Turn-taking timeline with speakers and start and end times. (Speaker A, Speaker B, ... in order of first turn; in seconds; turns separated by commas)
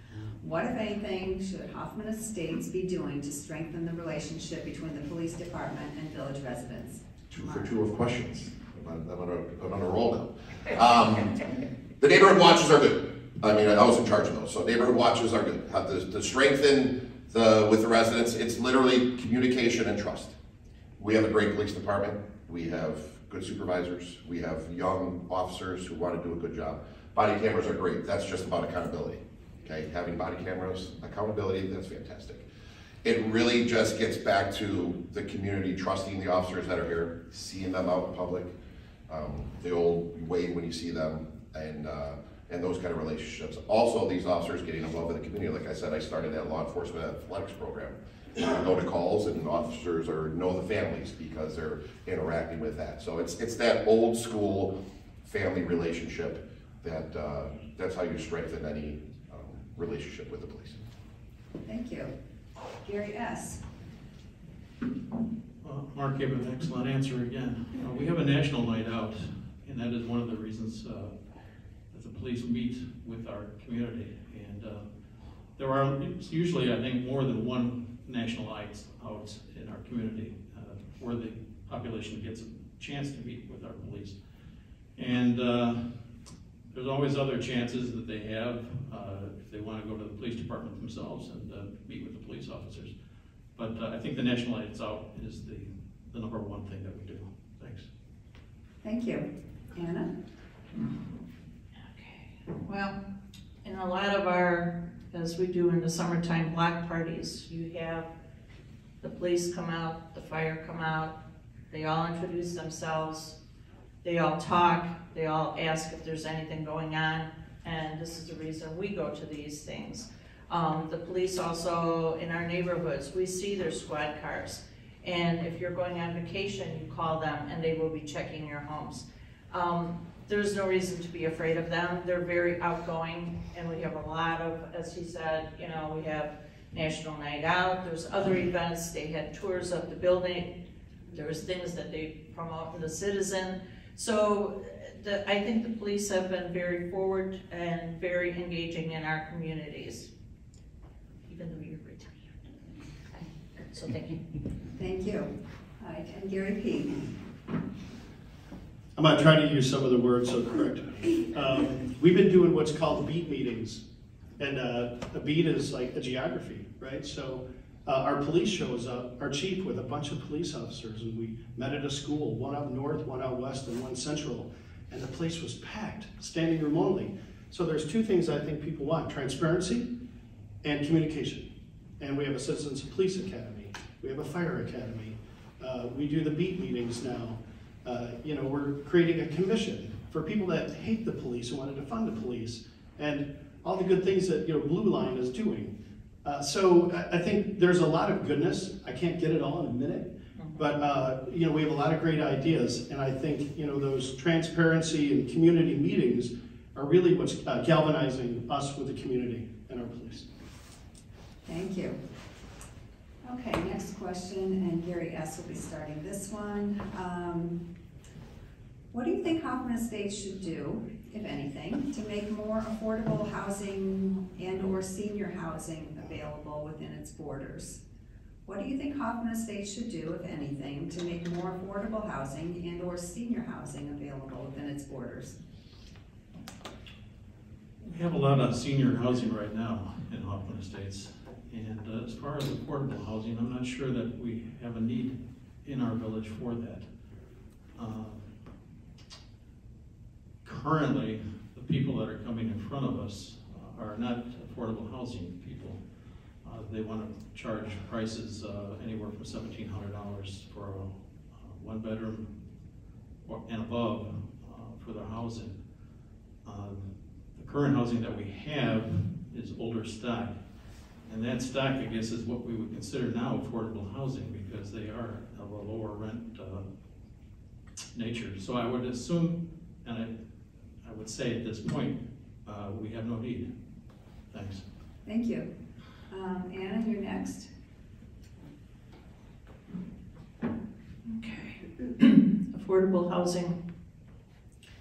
Speaker A: 0.4-7.8, Speaker B: 7.3-11.4, Speaker B: 12.0-20.4, Speaker B: 21.0-32.5, Speaker B: 33.0-38.5, Speaker B: 39.1-54.7, Speaker B: 55.2-60.8, Speaker A: 61.6-62.1, Speaker A: 62.8-63.6, Speaker C: 65.6-71.1, Speaker C: 71.9-74.8, Speaker C: 75.5-84.2, Speaker C: 85.0-86.0, Speaker C: 86.7-92.9, Speaker C: 93.5-97.9, Speaker A: 98.8-100.1, Speaker D: 101.8-103.0, Speaker D: 103.6-108.1, Speaker D: 109.0-111.2, Speaker D: 111.7-113.3, Speaker D: 114.0-140.5, Speaker D: 141.1-150.1, Speaker D: 151.3-152.5, Speaker D: 153.1-154.2, Speaker A: 154.7-157.0, Speaker E: 158.9-163.8, Speaker E: 164.4-179.9, Speaker E: 180.6-181.5, Speaker E: 182.0-195.7, Speaker E: 196.2-210.3, Speaker D: 200.4-200.7, Speaker A: 211.4-212.0, Speaker A: 213.2-217.6, Speaker A: 218.9-227.8, Speaker A: 228.4-235.3, Speaker C: 237.8-246.9, Speaker C: 247.8-248.3, Speaker C: 250.4-255.8, Speaker C: 256.4-262.3, Speaker C: 263.2-265.6, Speaker C: 266.4-270.4, Speaker C: 271.0-276.6, Speaker C: 277.9-280.1, Speaker C: 280.8-283.5, Speaker C: 284.3-284.6, Speaker A: 285.1-285.5, Speaker A: 286.1-287.5, Speaker D: 291.0-293.6